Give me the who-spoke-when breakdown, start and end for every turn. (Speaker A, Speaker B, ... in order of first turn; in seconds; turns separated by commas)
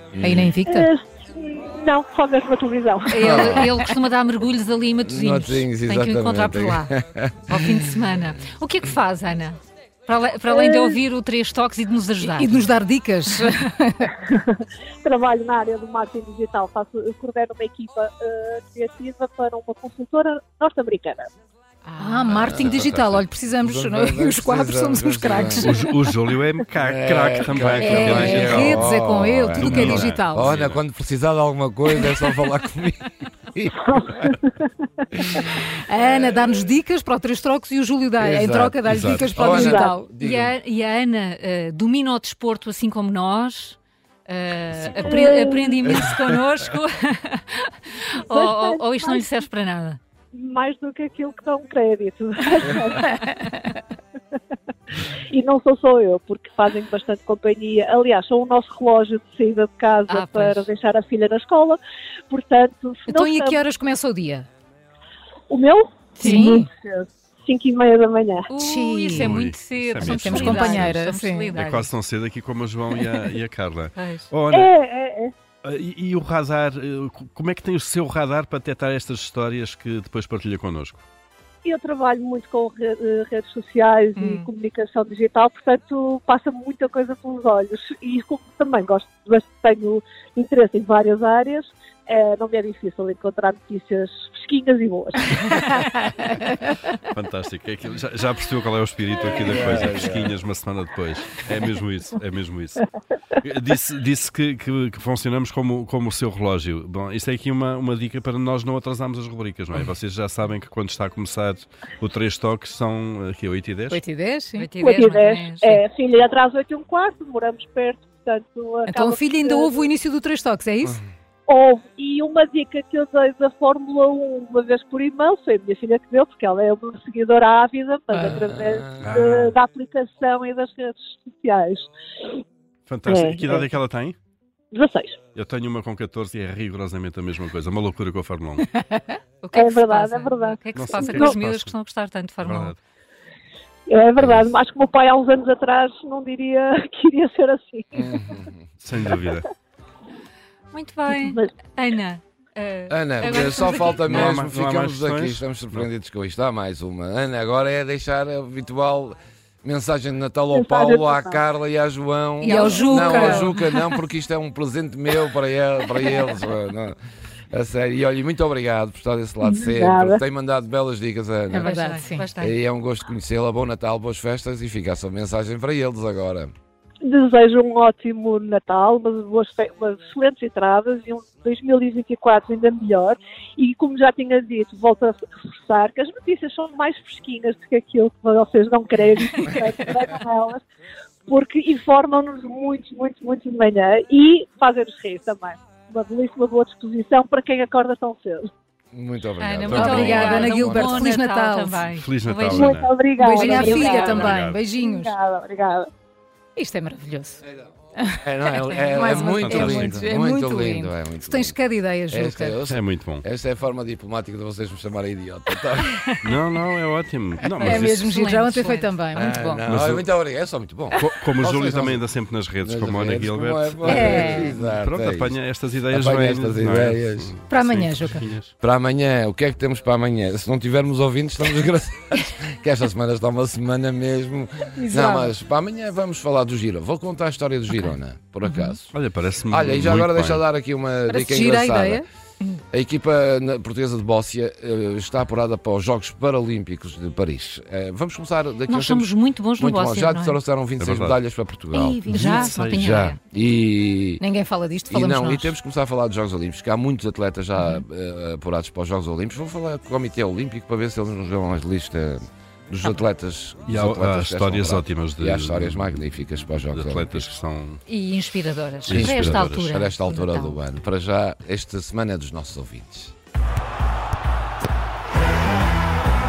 Speaker A: 0.1-0.5, Speaker B: 0.2-0.9, Speaker C: 0.6-3.6, Speaker D: 3.1-6.9, Speaker A: 3.2-3.8, Speaker A: 5.0-7.9, Speaker D: 7.5-12.7, Speaker C: 10.5-11.0, Speaker B: 12.2-14.1, Speaker C: 14.2-21.3, Speaker D: 21.8-22.5, Speaker B: 22.0-25.8, Speaker A: 22.3-25.8, Speaker E: 25.6-28.9, Speaker A: 26.8-34.3, Speaker B: 27.8-30.5, Speaker E: 29.5-30.8, Speaker C: 33.8-34.7, Speaker A: 35.3-36.6, Speaker B: 35.8-40.1, Speaker A: 38.2-38.8, Speaker E: 38.8-39.4, Speaker A: 39.3-40.5, Speaker C: 39.5-39.9, Speaker D: 40.1-50.0, Speaker E: 44.9-45.3, Speaker C: 45.0-45.9, Speaker C: 48.1-49.3, Speaker C: 50.3-53.4, Speaker C: 55.0-63.6, Speaker D: 60.1-60.7, Speaker B: 63.1-64.5, Speaker C: 65.5-68.5, Speaker B: 66.2-66.7, Speaker D: 68.5-71.9, Speaker B: 68.5-69.4, Speaker E: 69.1-71.0, Speaker B: 70.0-71.5, Speaker E: 71.5-74.7, Speaker D: 74.0-74.3, Speaker C: 74.5-75.3, Speaker E: 75.6-81.0, Speaker C: 81.6-95.8, Speaker D: 84.2-84.5, Speaker E: 96.9-102.8, Speaker A: 99.3-100.3, Speaker E: 103.4-114.0, Speaker B: 113.9-114.7, Speaker D: 114.6-115.8, Speaker C: 114.8-119.9, Speaker B: 118.9-121.0, Speaker C: 121.5-131.9, Speaker A: 128.2-129.2, Speaker E: 129.0-129.4, Speaker E: 132.8-134.2, Speaker C: 133.1-133.7, Speaker C: 134.7-135.2, Speaker E: 135.3-138.8, Speaker D: 139.4-142.7, Speaker C: 139.5-141.4, Speaker E: 140.7-141.7, Speaker E: 142.4-142.8, Speaker C: 143.9-148.2, Speaker A: 147.9-148.6, Speaker E: 148.8-149.5, Speaker D: 150.7-154.0, Speaker C: 151.1-151.5, Speaker A: 152.9-167.0, Speaker E: 153.9-155.9, Speaker C: 160.5-161.4, Speaker D: 162.4-163.7, Speaker B: 162.4-163.5, Speaker A: 167.5-171.8, Speaker C: 169.4-170.2, Speaker B: 171.5-172.2, Speaker D: 171.6-172.6, Speaker A: 172.4-176.5, Speaker C: 177.0-190.6, Speaker C: 191.3-198.4, Speaker A: 198.9-201.0, Speaker D: 199.4-202.8, Speaker E: 199.7-200.9, Speaker B: 199.7-201.8, Speaker E: 201.9-204.6, Speaker C: 202.5-205.9, Speaker B: 203.2-205.1, Speaker D: 203.5-204.1, Speaker B: 206.6-207.4, Speaker B: 208.0-212.6, Speaker A: 208.2-211.6, Speaker E: 209.2-210.0, Speaker A: 212.1-216.1, Speaker E: 212.7-213.2, Speaker E: 216.2-218.6, Speaker B: 217.6-219.6, Speaker D: 218.4-218.9, Speaker A: 219.1-222.0, Speaker E: 219.6-220.0, Speaker E: 220.9-228.5, Speaker A: 222.6-225.3, Speaker B: 223.8-224.6, Speaker A: 225.9-227.3, Speaker B: 227.5-228.2, Speaker A: 228.6-238.9, Speaker B: 234.8-235.3, Speaker E: 238.9-240.4, Speaker A: 239.5-242.0, Speaker B: 241.1-242.0, Speaker A: 242.7-252.1, Speaker D: 248.7-250.4, Speaker E: 250.8-251.2, Speaker B: 251.7-252.6, Speaker D: 252.1-253.2, Speaker E: 252.1-252.9, Speaker A: 252.6-254.2, Speaker B: 254.2-255.5, Speaker A: 254.9-267.2, Speaker E: 263.7-265.9, Speaker E: 266.7-267.8, Speaker D: 267.9-270.6, Speaker E: 268.9-269.7, Speaker A: 268.9-273.1